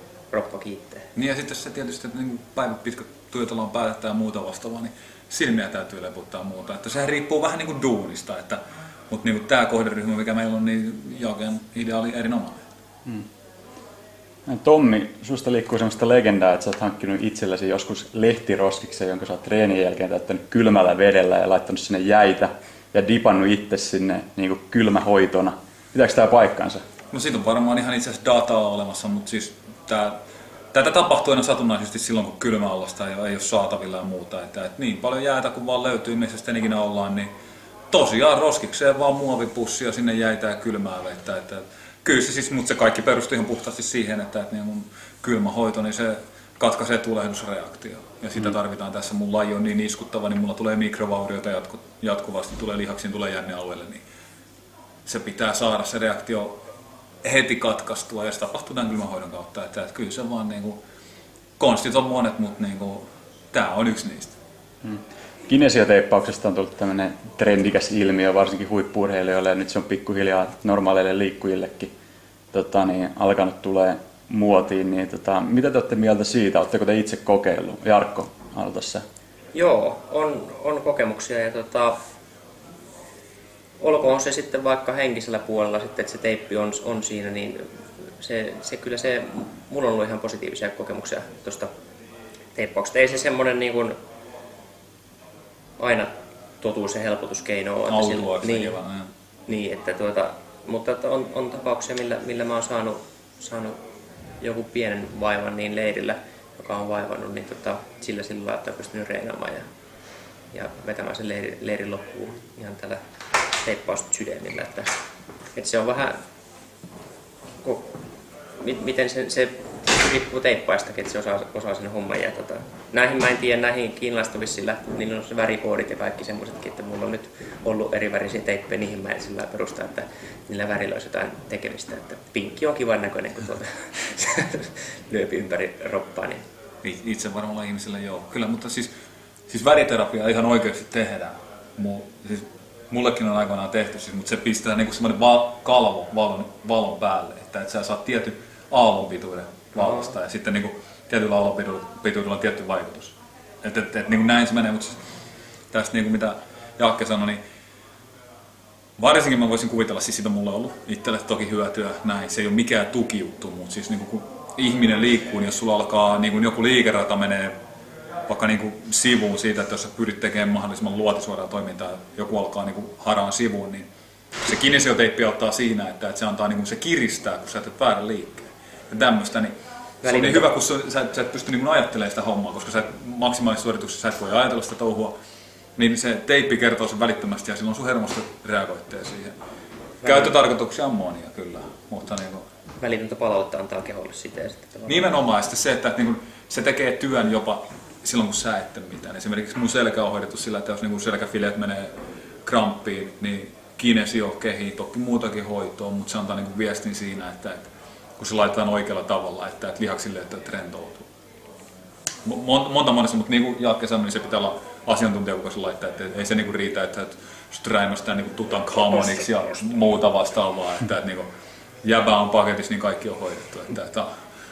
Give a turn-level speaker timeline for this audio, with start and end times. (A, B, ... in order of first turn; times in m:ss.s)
0:00.3-0:01.1 A
0:01.1-0:12.6 B
0:14.5-0:26.8 C
0:27.1-0:30.2 B
0:30.7-0:37.3 B
0:37.9-0:54.0 B
0:55.0-0:56.5 B
0:57.2-1:00.8 B
1:01.6-1:04.4 B
1:04.8-1:11.9 C
1:12.5-1:19.0 C
1:19.5-1:22.0 A
1:23.8-1:31.7 A
1:32.5-1:33.9 A
1:35.8-1:38.8 A
1:37.9-1:39.1 B
1:39.5-1:43.8 A
1:44.4-1:49.6 A
1:50.5-1:53.0 A
1:53.6-1:55.0 A
1:55.5-1:56.2 A
1:57.6-1:58.0 A
1:58.6-2:16.4 A
2:16.8-2:18.9 B
2:19.5-2:35.0 B
2:35.7-2:37.4 B
2:39.0-2:47.5 B
2:48.3-2:53.9 B
2:54.4-3:05.1 B
3:00.0-3:00.5 A
3:05.8-3:09.4 B
3:10.0-3:10.3 A
3:10.0-3:12.4 B
3:12.8-3:15.1 A
3:14.9-3:21.9 B
3:22.4-3:31.1 B
3:32.2-3:41.3 B
3:41.8-3:44.1 B